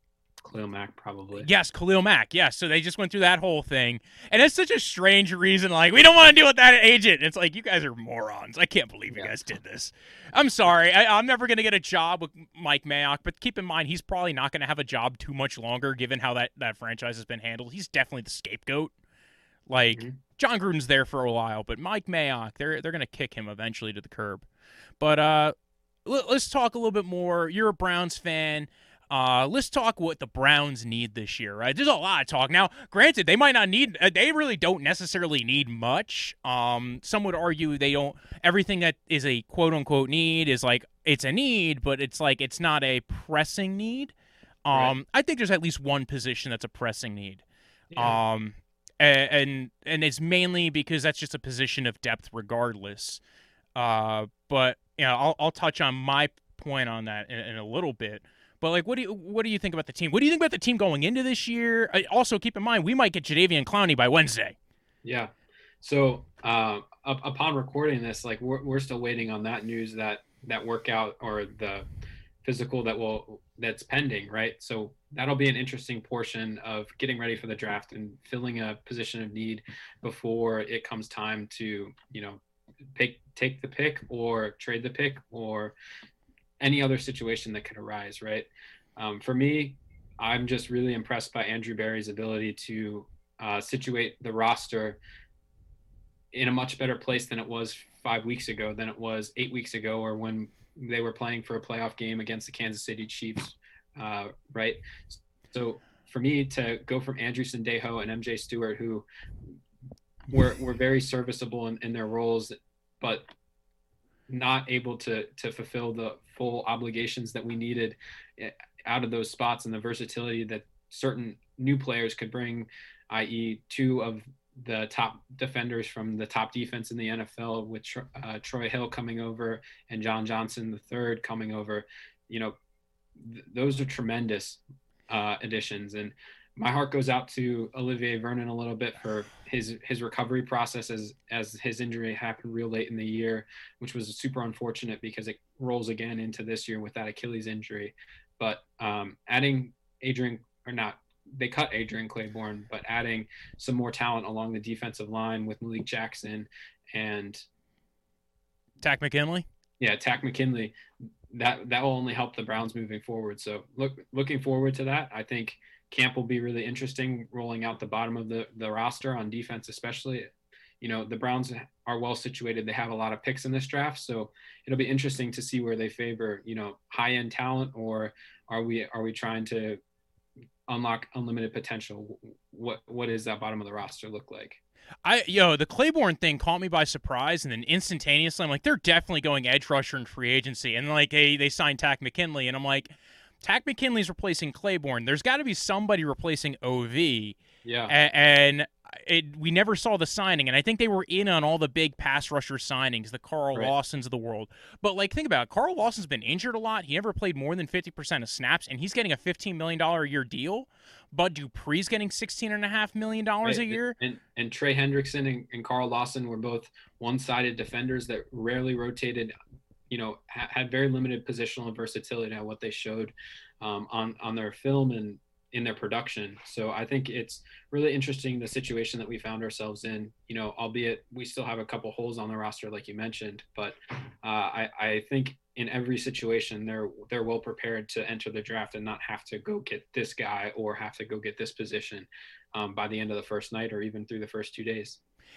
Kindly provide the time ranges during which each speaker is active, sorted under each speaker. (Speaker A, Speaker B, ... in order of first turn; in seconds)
Speaker A: 0.4-1.5, 47.9-48.2, 65.0-71.9, 72.4-82.4, 82.9-85.7, 86.6-95.0, 96.3-109.5, 110.3-113.2, 114.3-132.5, 133.2-157.4, 159.8-160.7, 161.3-170.3, 170.8-179.8, 180.7-184.6, 197.6-197.9, 213.4-219.3, 219.9-245.0
Speaker B: 1.3-18.9, 19.7-24.4, 25.0-25.5, 26.0-44.1, 44.6-47.4, 48.0-53.2, 53.7-64.5, 158.8-159.4, 185.0-197.4, 197.9-213.9